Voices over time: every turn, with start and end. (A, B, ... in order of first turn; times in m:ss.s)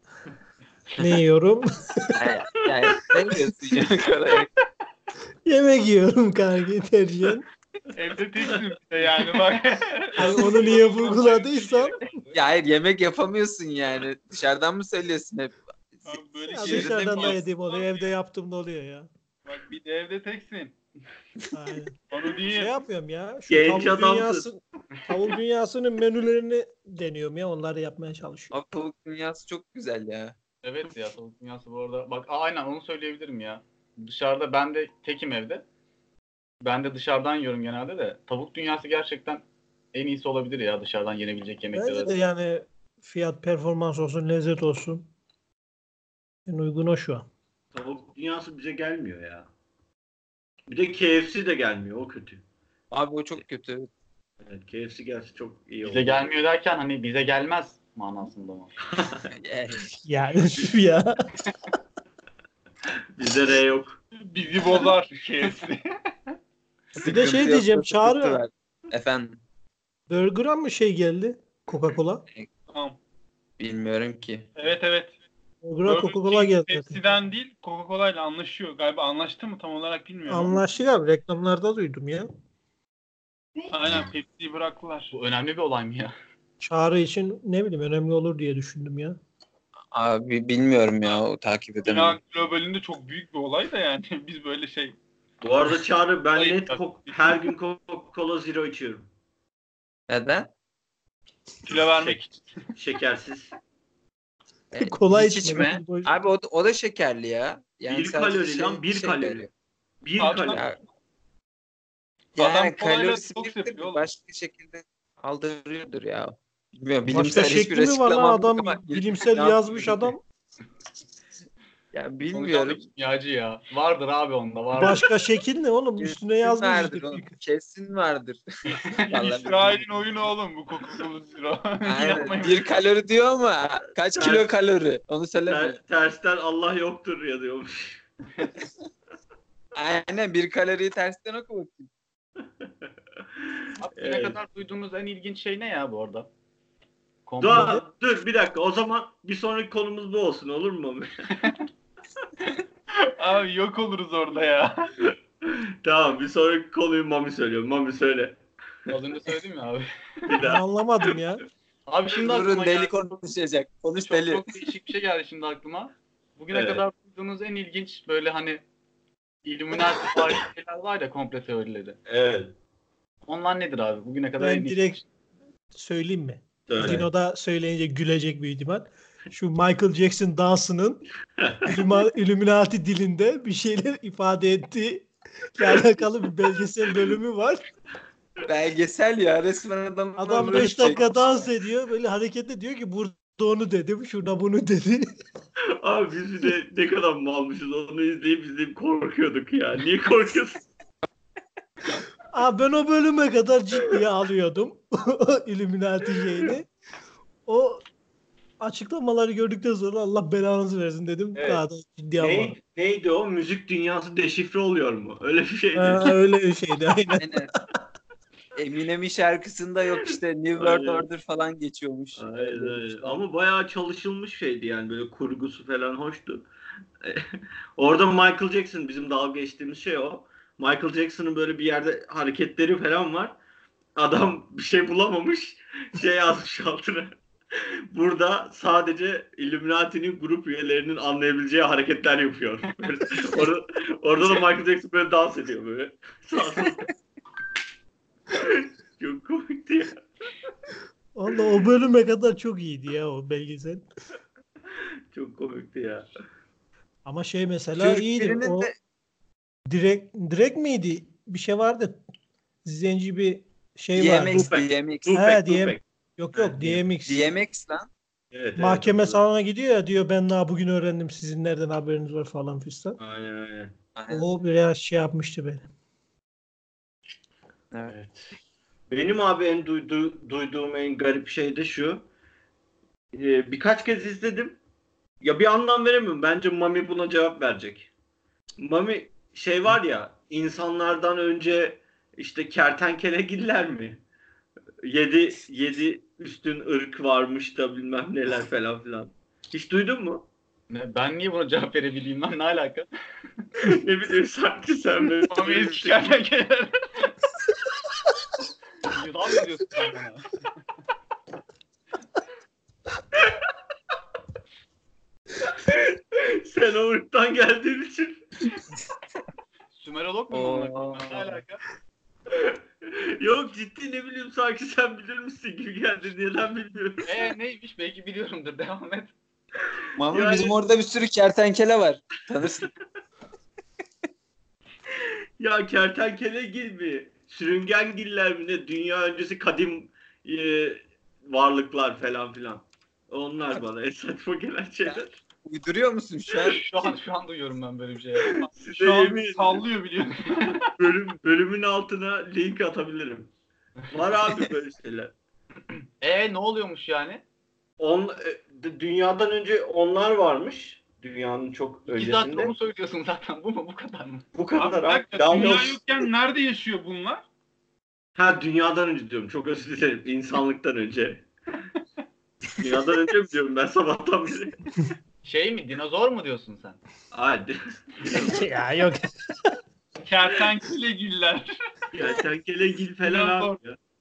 0:01.0-0:02.2 A
0:02.2-0:04.5 B
0:05.5-0:07.4 A
0:08.0-0:12.1 C
0:10.2-0:12.0 A
0:12.3-0:15.6 B
0:16.1-0:18.1 C
0:16.5-0:17.4 B
0:16.5-0:19.1 A
0:19.4-0:20.8 C
0:21.5-0:22.0 A
0:22.1-0:22.7 C
0:22.5-0:28.5 A
0:23.5-0:24.5 D
0:28.5-0:30.4 B
0:30.6-0:35.6 E
0:36.6-0:42.1 E
0:41.8-0:45.1 A
0:46.5-0:47.3 A
0:47.7-0:49.5 D
0:50.7-0:52.4 D
0:52.9-0:53.9 B
0:54.4-0:56.3 D
0:55.8-0:58.8 E
0:58.9-0:59.3 D
0:59.3-0:59.9 B
1:00.0-1:01.1 A
1:03.2-1:04.0 D
1:04.2-1:05.8 C
1:07.0-1:08.4 A
1:07.0-1:09.4 B
1:10.1-1:12.2 A
1:12.7-1:13.0 C
1:13.6-1:14.5 B
1:14.6-1:15.2 C
1:15.6-1:17.0 A
1:15.9-1:20.6 C
1:20.3-1:22.3 A
1:23.7-1:25.1 C
1:25.1-1:26.1 E
1:26.6-1:29.2 A
1:29.9-1:32.2 B
1:31.8-1:35.0 C
1:35.4-1:39.1 D
1:40.1-1:40.5 B
1:41.7-1:42.5 C
1:42.8-1:43.5 D
1:44.7-1:49.5 B
1:44.8-1:46.1 A
1:47.9-1:49.5 D
1:50.0-1:50.6 D
1:50.2-1:50.6 C
1:50.5-1:50.8 B
1:52.4-1:54.0 C
1:52.4-2:00.1 B
1:57.1-2:00.2 A
2:01.9-2:02.8 B
2:02.3-2:05.0 E
2:04.8-2:07.3 A
2:06.0-2:08.4 B
2:09.1-2:12.6 C
2:09.1-2:09.9 B
2:11.8-2:15.8 B
2:14.2-2:14.5 D
2:15.5-2:18.0 D
2:19.8-2:21.9 B
2:23.8-2:26.3 E
2:24.0-2:24.4 D
2:27.3-2:27.8 E
2:27.4-2:31.3 D
2:33.0-2:34.9 C
2:35.1-2:38.4 D
2:38.9-2:39.9 E
2:40.3-2:40.6 D
2:40.4-2:41.4 A
2:41.9-2:43.0 E
2:42.2-2:44.4 B
2:44.0-2:48.6 E
2:46.5-2:46.8 D
2:49.4-2:52.0 E
2:52.1-2:52.5 D
2:53.3-2:55.0 E
2:54.4-2:55.0 A
2:55.7-3:01.0 A
2:56.7-2:57.1 D
3:01.4-3:01.7 D
3:01.7-3:07.6 A
3:08.5-3:11.1 B
3:10.2-3:15.1 A
3:15.8-3:20.6 D
3:22.3-3:26.7 A
3:27.5-3:27.9 A
3:28.6-3:32.6 A
3:31.4-3:31.6 D
3:32.2-3:36.2 D
3:35.8-3:37.4 A
3:37.2-3:37.5 B
3:38.6-3:43.2 B
3:40.6-3:41.1 D
3:42.2-3:46.5 D
3:47.8-3:53.4 D
3:54.0-4:06.9 D
4:08.3-4:10.5 D
4:11.2-4:13.8 A
4:15.1-4:16.1 D
4:17.0-4:18.7 A
4:17.8-4:18.7 B
4:19.7-4:22.0 A
4:22.6-4:24.5 A
4:23.9-4:25.1 B
4:24.3-4:25.8 D
4:25.1-4:27.3 A
4:26.3-4:26.8 D
4:27.0-4:27.9 B
4:28.3-4:29.2 D
4:28.6-4:33.0 A
4:33.0-4:33.7 D
4:34.0-4:34.3 B
4:34.1-4:35.7 A
4:37.9-4:38.4 D
4:38.9-4:42.1 D
4:43.1-4:44.6 D
4:45.2-4:47.9 D
4:48.6-4:54.0 D
4:54.8-5:00.3 D
5:00.7-5:02.9 E
5:03.6-5:06.0 D
5:05.3-5:06.8 C
5:08.9-5:10.3 E
5:15.4-5:18.3 D
5:19.7-5:21.6 E
5:20.3-5:21.4 B
5:22.3-5:27.1 D
5:27.0-5:29.1 E
5:30.0-5:32.7 B
5:30.1-5:30.6 D
5:34.9-5:45.2 D
5:44.9-5:46.7 B
5:46.4-5:48.5 E
5:48.2-5:49.6 D
5:48.7-5:50.7 C
5:50.8-5:53.3 D
5:53.9-5:55.1 D
5:56.0-5:57.2 E
5:57.8-6:02.5 D
6:01.9-6:04.3 E
6:04.3-6:05.8 D
6:04.6-6:07.2 C
6:08.2-6:11.3 D
6:12.5-6:14.6 D
6:15.2-6:16.8 E
6:17.1-6:18.4 D
6:18.1-6:19.4 A
6:20.0-6:21.5 C
6:21.9-6:23.8 D
6:23.0-6:23.6 C